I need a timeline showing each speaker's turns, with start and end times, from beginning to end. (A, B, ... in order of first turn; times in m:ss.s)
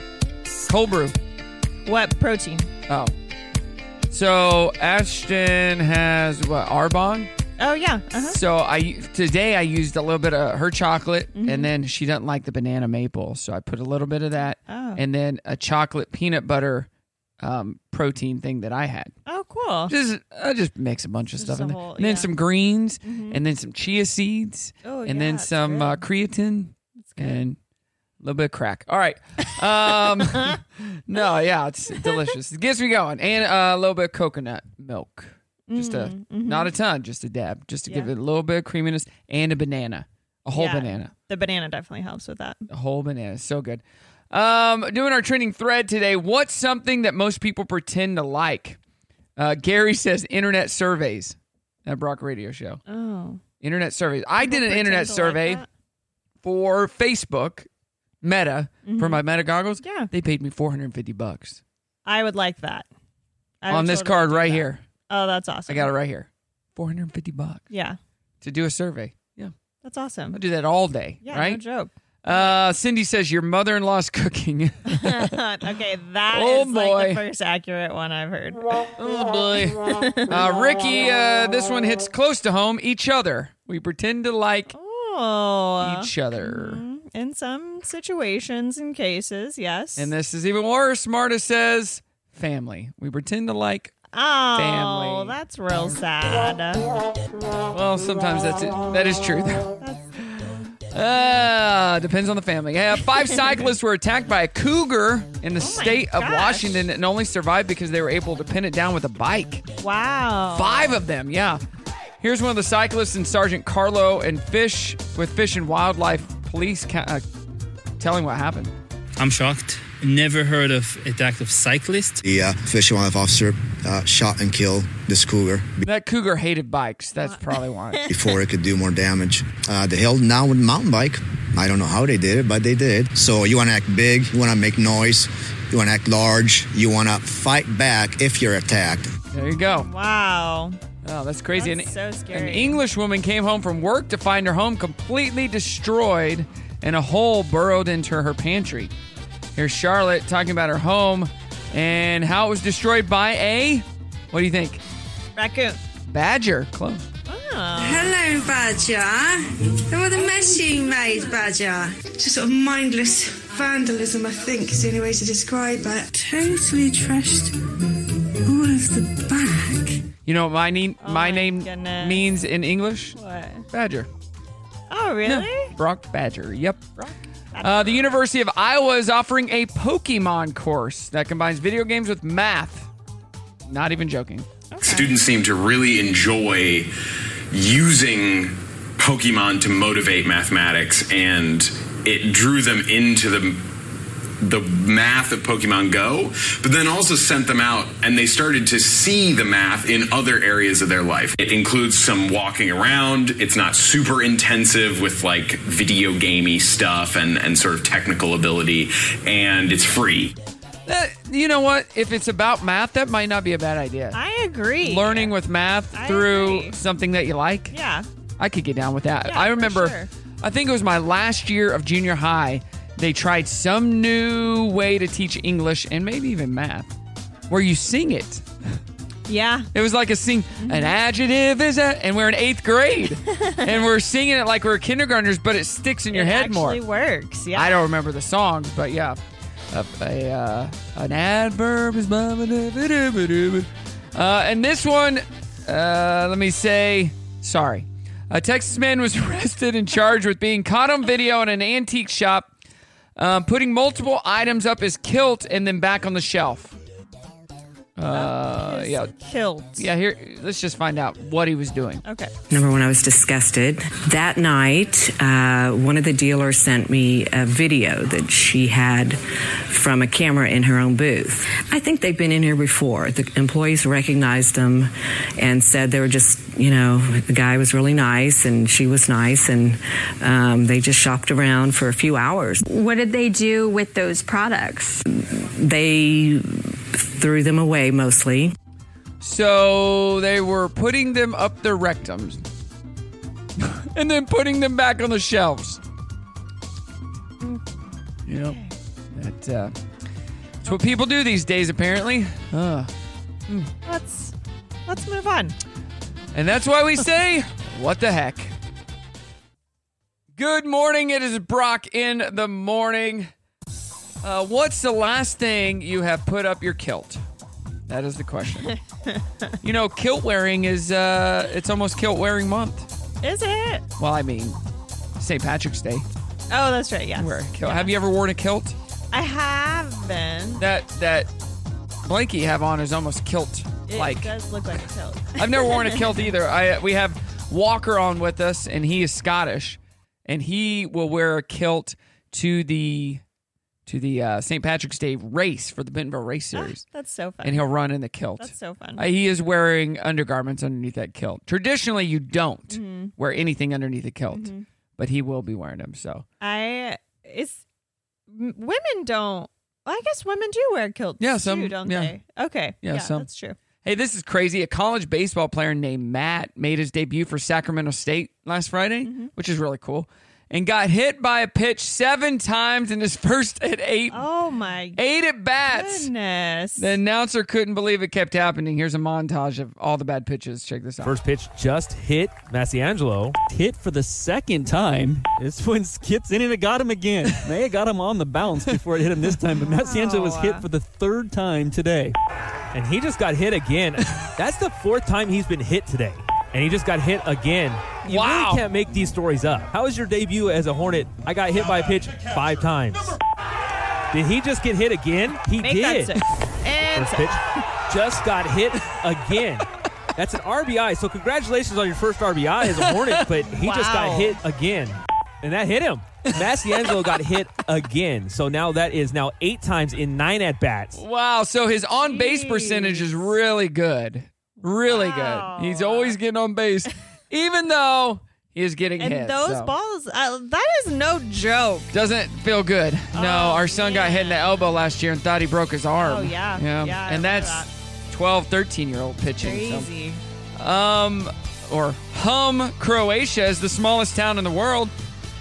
0:00.6-0:01.2 A
0:01.8-0:02.7 B
0:02.9-0:03.1 A
0:04.1-0:07.3 A
0:07.6-0:08.4 B
0:08.2-0:16.9 A
0:11.3-0:11.7 B
0:14.7-0:15.0 B
0:17.4-0:19.1 A
0:19.2-0:19.9 B
0:19.9-0:27.6 A
0:21.4-0:22.3 B
0:23.0-0:23.4 B
0:24.8-0:26.0 B
0:27.0-0:27.5 B
0:28.2-0:41.1 A
0:30.1-0:30.6 B
0:35.7-0:36.7 B
0:37.9-0:38.1 B
0:40.5-0:42.7 B
0:42.7-0:48.8 A
0:49.4-0:52.8 A
0:52.9-0:53.4 B
0:53.6-0:55.6 A
0:54.4-0:55.7 B
0:56.4-0:57.7 A
0:58.2-1:01.6 A
0:58.8-0:59.2 B
0:59.8-1:00.1 B
1:02.0-1:02.9 B
1:03.6-1:05.9 B
1:03.7-1:04.8 A
1:05.7-1:07.6 A
1:07.7-1:08.0 B
1:08.4-1:09.5 A
1:09.8-1:10.4 B
1:10.3-1:11.6 A
1:11.2-1:12.6 B
1:12.2-1:15.4 A
1:14.9-1:18.7 B
1:16.3-1:17.2 A
1:19.0-1:24.7 A
1:19.8-1:20.3 B
1:24.7-1:30.1 B
1:25.8-1:26.8 A
1:30.0-1:33.9 A
1:34.1-1:36.9 B
1:34.5-1:35.4 A
1:37.7-1:49.6 A
1:43.1-1:43.6 B
1:45.6-1:46.8 B
1:49.8-1:50.9 B
1:50.5-1:51.6 A
1:52.2-1:57.2 A
1:58.0-1:58.7 A
1:59.2-2:02.2 C
2:02.2-2:05.8 D
2:05.8-2:08.0 A
2:07.2-2:08.3 B
2:08.1-2:19.1 D
2:19.3-2:19.9 A
2:19.8-2:20.8 B
2:21.0-2:28.9 A
2:21.6-2:22.8 B
2:29.5-2:34.8 A
2:35.4-2:35.8 B
2:36.1-2:37.1 A
2:37.3-2:38.1 B
2:37.8-2:47.6 E
2:48.4-2:50.1 E
2:50.2-2:53.2 A
2:51.0-2:52.2 B
2:53.2-2:53.6 B
2:53.7-2:54.1 A
2:54.9-2:55.7 B
2:55.2-2:56.8 A
2:57.0-2:58.2 B
2:57.6-3:02.9 A
3:03.6-3:04.5 A
3:04.7-3:05.1 B
3:04.8-3:06.9 F
3:07.5-3:13.7 F
3:14.4-3:30.3 F
3:30.9-3:34.2 A
3:34.1-3:35.3 B
3:34.8-3:37.7 A
3:35.9-3:36.8 B
3:37.7-3:38.0 B
3:38.4-3:46.9 A
3:39.2-3:40.1 B
3:47.5-3:48.4 A
3:49.3-3:49.7 B
3:49.7-3:56.8 A
3:50.6-3:50.9 B
3:53.3-3:53.8 B
3:56.1-3:57.8 B
3:57.5-3:59.2 A
3:59.7-4:12.5 A
4:13.2-4:16.7 A
4:18.0-4:19.1 A
4:18.1-4:19.9 B
4:19.8-4:22.0 A
4:22.0-4:22.3 B
4:22.5-4:29.2 G
4:29.7-4:42.6 G
4:42.7-4:45.0 H
4:45.3-4:48.5 G
4:49.2-4:52.4 A
4:53.6-4:55.8 A
4:58.3-4:58.6 A
4:58.4-4:58.7 B
4:59.1-4:59.7 A
5:00.6-5:02.9 A
5:03.8-5:04.3 B
5:04.9-5:05.6 B
5:06.3-5:08.5 A
5:10.4-5:13.3 A
5:14.2-5:17.2 A
5:17.9-5:18.7 A
5:19.0-5:19.5 B
5:19.6-5:22.9 A
5:23.2-5:23.8 B
5:24.0-5:24.6 A
5:25.2-5:26.0 A
5:26.5-5:27.9 B
5:27.2-5:28.8 A
5:29.1-5:30.6 B
5:30.6-5:31.3 A
5:32.0-5:34.3 A
5:33.9-5:36.3 B
5:35.4-5:43.2 A
5:43.8-5:46.8 A
5:46.5-5:47.7 B
5:47.4-5:56.2 A
5:48.4-5:49.1 B
5:52.7-5:53.1 B
5:54.3-5:54.6 B
5:56.4-5:57.6 B
5:58.3-6:03.6 B
6:01.2-6:02.1 A
6:02.8-6:03.3 A
6:03.8-6:14.2 A
6:09.0-6:09.3 B
6:14.1-6:15.0 B
6:15.0-6:16.1 A
6:15.7-6:16.9 B
6:16.8-6:21.1 A
6:21.0-6:32.1 I
6:29.6-6:30.6 B
6:32.7-6:43.2 I
6:38.0-6:38.6 A
6:44.1-6:46.2 I
6:45.6-6:47.4 B
6:46.9-7:01.0 I
6:52.6-6:53.3 A
6:53.6-6:54.4 B
7:00.9-7:09.7 A
7:02.0-7:03.3 B
7:04.6-7:06.2 B
7:09.0-7:11.9 B
7:11.9-7:19.9 A
7:13.1-7:14.7 B
7:16.0-7:17.7 B
7:19.4-7:20.2 B
7:20.6-7:24.9 A